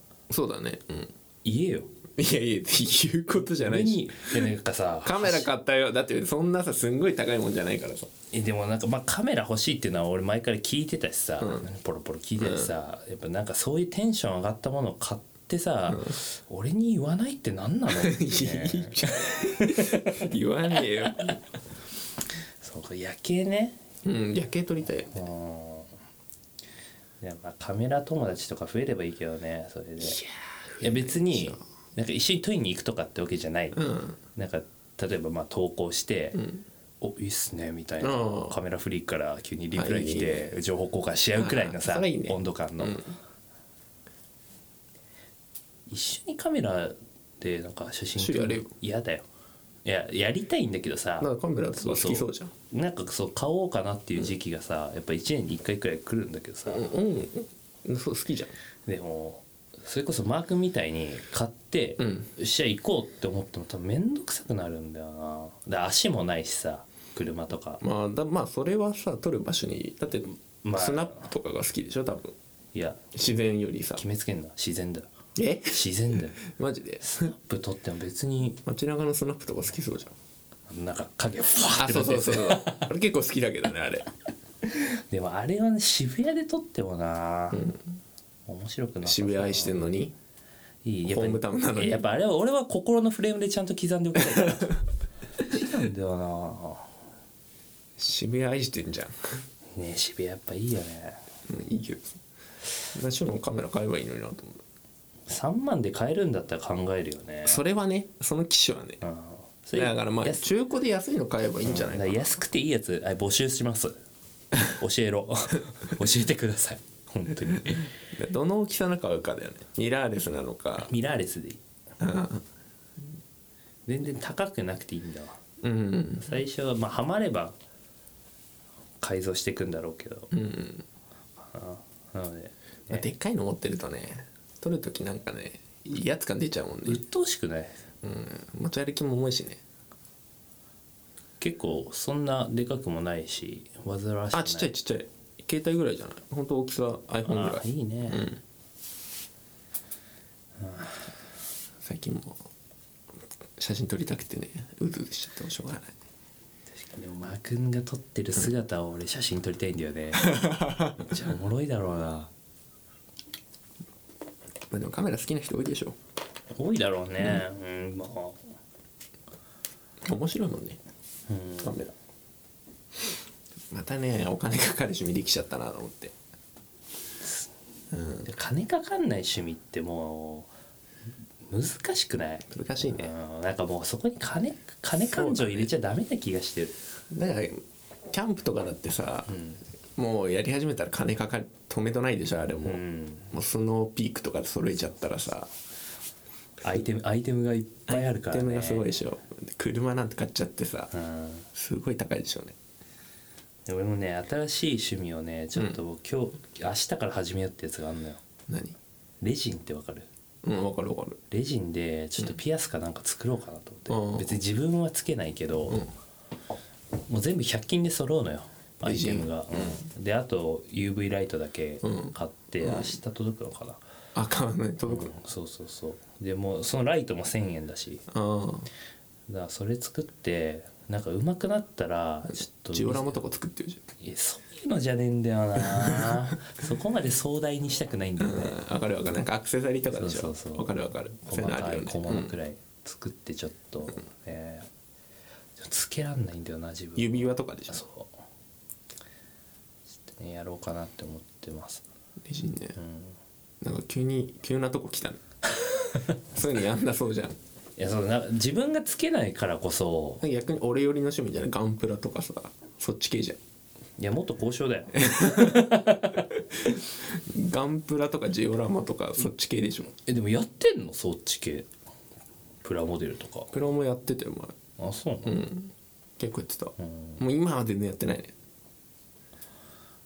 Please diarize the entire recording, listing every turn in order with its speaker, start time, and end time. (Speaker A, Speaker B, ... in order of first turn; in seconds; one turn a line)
Speaker A: 0.3-1.1
Speaker B: 1.4-1.9
Speaker A: 2.1-4.5
Speaker B: 3.4-5.5
Speaker A: 5.0-8.1
Speaker B: 8.3-20.3
Speaker A: 11.4-11.7
Speaker A: 12.4-12.7
Speaker A: 15.9-16.2
Speaker A: 17.9-21.4
Speaker B: 21.1-21.3
Speaker B: 22.6-23.8
Speaker A: 24.0-25.1
Speaker B: 25.1-25.9
Speaker B: 27.2-30.2
Speaker A: 30.0-31.6
Speaker B: 30.8-33.8
Speaker A: 33.7-34.2
Speaker B: 34.3-36.4
Speaker A: 36.3-36.6
Speaker B: 37.0-43.0
Speaker A: 38.0-38.6
Speaker A: 39.7-40.5
Speaker A: 41.4-43.1
Speaker B: 45.9-49.2
Speaker A: 48.2-48.7
Speaker B: 49.8-56.9
Speaker A: 51.2-52.5
Speaker A: 56.7-58.5
Speaker B: 58.9-67.8
Speaker A: 62.0-62.3
Speaker A: 67.8-72.3
Speaker B: 70.6-71.3
Speaker B: 72.7-73.0
Speaker A: 73.1-74.0
Speaker B: 74.0-75.1
Speaker A: 75.3-75.8
Speaker B: 75.7-76.4
Speaker A: 76.4-77.3
Speaker B: 77.0-78.6
Speaker A: 78.6-80.1
Speaker B: 80.7-82.9
Speaker A: 81.7-84.1
Speaker B: 84.7-87.7
Speaker A: 87.5-87.8
Speaker B: 88.5-89.8
Speaker A: 89.0-90.1
Speaker B: 90.8-94.8
Speaker A: 91.1-92.0
Speaker B: 95.4-96.9
Speaker A: 98.0-99.2
Speaker B: 99.7-101.2
Speaker A: 101.5-102.2
Speaker A: 102.9-104.6
Speaker B: 105.3-107.6
Speaker A: 107.4-109.0
Speaker B: 109.0-110.5
Speaker A: 109.8-112.3
Speaker B: 111.6-113.9
Speaker B: 114.6-117.9
Speaker A: 117.7-120.9
Speaker B: 120.8-121.6
Speaker A: 122.0-122.4
Speaker B: 123.9-125.4
Speaker A: 125.6-126.3
Speaker B: 126.2-127.5
Speaker B: 129.0-130.3
Speaker A: 130.3-130.8
Speaker B: 131.4-133.1
Speaker A: 132.9-137.0
Speaker B: 136.8-137.8
Speaker A: 138.0-139.6
Speaker B: 141.4-144.7
Speaker A: 144.3-148.4
Speaker B: 147.2-148.3
Speaker B: 150.6-151.1
Speaker A: 151.8-152.4
Speaker A: 153.6-155.9
Speaker B: 156.8-162.3
Speaker A: 160.2-160.9
Speaker A: 164.7-166.0
Speaker B: 166.5-168.4
Speaker A: 170.0-170.8
Speaker B: 171.3-171.8
Speaker A: 171.6-171.9
Speaker A: 173.7-176.1
Speaker A: 177.9-178.2
Speaker B: 178.2-180.5
Speaker B: 181.4-186.7
Speaker A: 182.5-183.1
Speaker A: 185.0-185.7
Speaker A: 187.1-189.3
Speaker B: 189.3-189.6
Speaker A: 189.9-195.5
Speaker B: 192.6-193.3
Speaker B: 196.6-198.9
Speaker A: 197.9-200.9
Speaker B: 200.9-201.5
Speaker A: 201.5-202.6
Speaker B: 203.7-208.2
Speaker A: 208.5-208.8
Speaker B: 209.2-210.1
Speaker A: 210.4-211.2
Speaker B: 211.3-215.8
Speaker A: 213.9-214.4
Speaker B: 217.1-223.8
Speaker A: 218.8-219.8
Speaker A: 221.8-222.9
Speaker A: 224.1-225.1
Speaker B: 224.9-228.0
Speaker A: 228.1-228.7
Speaker B: 229.3-233.2
Speaker A: 232.7-233.8
Speaker B: 234.0-238.6
Speaker A: 235.8-236.2
Speaker A: 238.2-242.3
Speaker B: 239.9-244.7
Speaker B: 245.6-248.1
Speaker A: 246.9-247.8
Speaker B: 250.1-251.8
Speaker A: 252.2-252.8
Speaker B: 252.8-253.2
Speaker A: 253.6-255.2
Speaker A: 256.3-257.4
Speaker B: 257.8-260.2
Speaker A: 260.2-263.4
Speaker B: 264.0-266.3
Speaker A: 264.9-265.7
Speaker A: 266.5-269.9
Speaker B: 270.0-271.7
Speaker B: 272.6-273.5
Speaker A: 273.5-274.6
Speaker B: 274.8-275.4
Speaker A: 275.2-278.3
Speaker B: 276.8-277.2